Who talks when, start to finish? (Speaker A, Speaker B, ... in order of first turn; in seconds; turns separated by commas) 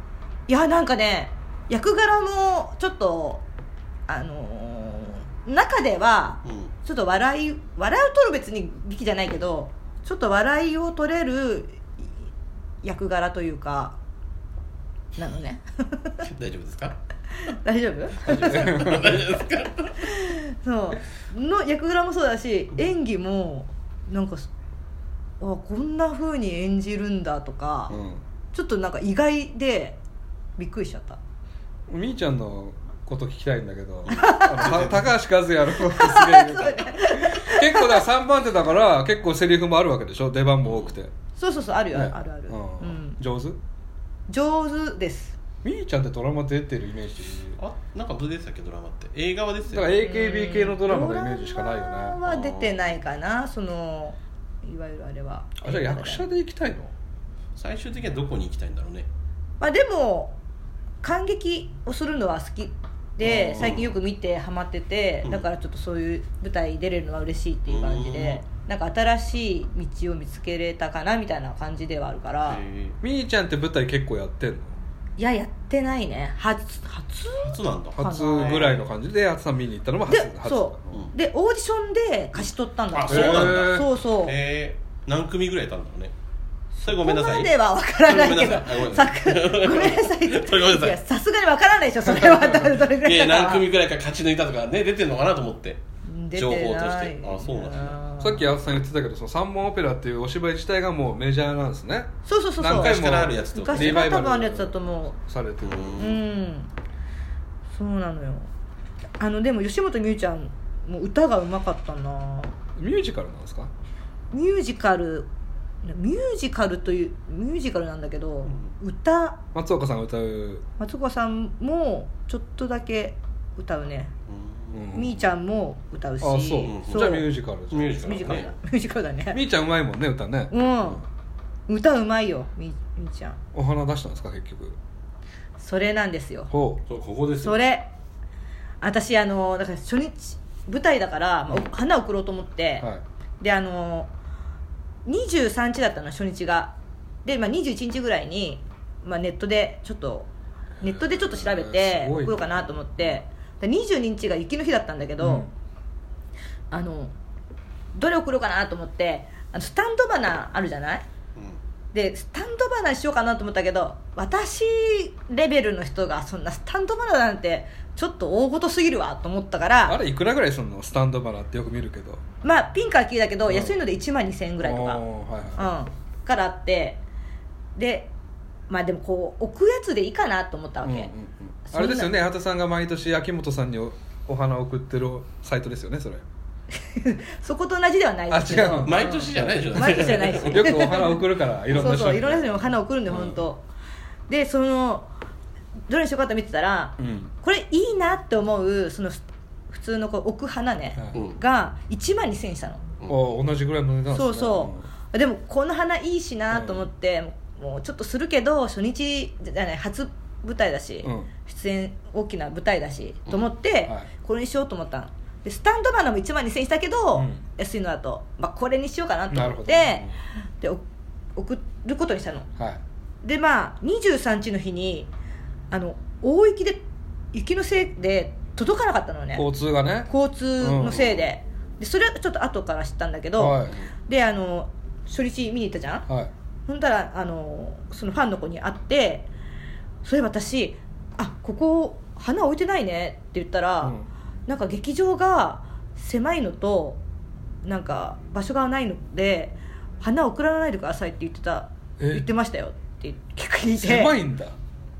Speaker A: 0.5-3.4, Speaker A: 4.1-11.9, Speaker B: 6.4-6.7, Speaker A: 12.8-13.9, Speaker A: 15.2-16.2, Speaker B: 16.2-17.0, Speaker A: 17.4-19.1, Speaker B: 18.2-20.1, Speaker C: 18.5-19.2, Speaker A: 20.0-24.5, Speaker A: 25.4-27.9, Speaker C: 27.9-28.2, Speaker A: 28.5-30.0, Speaker A: 30.6-31.2, Speaker C: 31.9-41.1, Speaker B: 34.1-35.1, Speaker A: 34.1-34.6, Speaker A: 35.8-38.0, Speaker B: 40.6-41.0, Speaker A: 41.4-43.2, Speaker C: 41.9-43.6, Speaker A: 44.3-45.4, Speaker C: 45.6-47.6, Speaker B: 47.6-50.0, Speaker C: 49.7-52.2, Speaker A: 50.0-56.2, Speaker B: 52.2-52.9, Speaker C: 55.6-56.9, Speaker B: 57.5-59.1, Speaker A: 59.6-60.4, Speaker A: 61.0-72.6, Speaker C: 63.2-63.8, Speaker B: 63.6-63.9, Speaker B: 67.7-68.4, Speaker B: 72.5-73.0, Speaker C: 73.0-74.7, Speaker A: 75.2-78.6, Speaker B: 77.4-78.8, Speaker C: 78.0-81.0, Speaker A: 80.1-84.3, Speaker B: 82.9-86.1, Speaker C: 83.1-83.8, Speaker A: 86.8-93.7, Speaker B: 86.8-91.0, Speaker C: 92.1-92.6, Speaker B: 93.0-95.8, Speaker A: 96.0-98.4, Speaker B: 96.3-98.0, Speaker C: 98.2-106.1, Speaker A: 102.2-105.1, Speaker B: 102.6-104.1, Speaker B: 105.6-106.2, Speaker A: 106.0-106.7, Speaker A: 107.8-108.5, Speaker A: 109.2-112.5, Speaker C: 112.8-113.7, Speaker A: 114.3-115.3, Speaker A: 115.8-119.4, Speaker C: 119.5-120.6, Speaker A: 120.8-124.1, Speaker B: 124.3-124.8, Speaker C: 124.7-125.2, Speaker A: 124.9-127.2, Speaker C: 126.2-128.0, Speaker B: 126.6-128.5, Speaker A: 128.0-129.4, Speaker C: 129.3-131.0, Speaker A: 130.5-131.0, Speaker A: 131.7-133.4, Speaker C: 133.5-134.8, Speaker A: 135.6-136.5, Speaker C: 136.5-136.8, Speaker B: 136.9-137.6, Speaker A: 137.4-137.9, Speaker A: 138.8-142.9, Speaker A: 143.4-144.1, Speaker A: 145.1-146.7, Speaker A: 147.2-150.3, Speaker A: 150.8-155.5, Speaker C: 151.1-153.1, Speaker C: 155.2-155.5, Speaker A: 156.7-157.1, Speaker A: 157.9-161.0, Speaker A: 161.9-170.0, Speaker C: 169.8-172.2, Speaker A: 172.4-175.0, Speaker C: 173.5-173.8, Speaker C: 174.6-175.7, Speaker A: 175.6-177.0, Speaker A: 177.8-178.1, Speaker A: 178.7-181.1, Speaker C: 180.8-186.2, Speaker A: 181.7-182.1, Speaker A: 186.9-193.6, Speaker C: 188.3-193.4, Speaker B: 188.8-191.0, Speaker A: 194.3-195.1, Speaker A: 195.9-202.8, Speaker C: 197.0-197.3, Speaker B: 201.1-201.4, Speaker C: 203.1-204.8, Speaker A: 204.1-220.8, Speaker C: 206.5-206.8, Speaker C: 211.0-211.3, Speaker C: 217.1-217.4, Speaker C: 219.3-220.1, Speaker A: 221.3-222.5, Speaker A: 223.2-225.1, Speaker A: 225.7-226.8, Speaker A: 227.3-229.5, Speaker C: 229.3-230.1, Speaker A: 230.1-236.1, Speaker C: 230.6-231.2, Speaker C: 233.4-233.8, Speaker A: 236.7-239.3, Speaker A: 240.0-243.9, Speaker A: 244.5-247.0, Speaker A: 247.6-254.2, Speaker C: 252.0-252.3, Speaker C: 253.8-254.5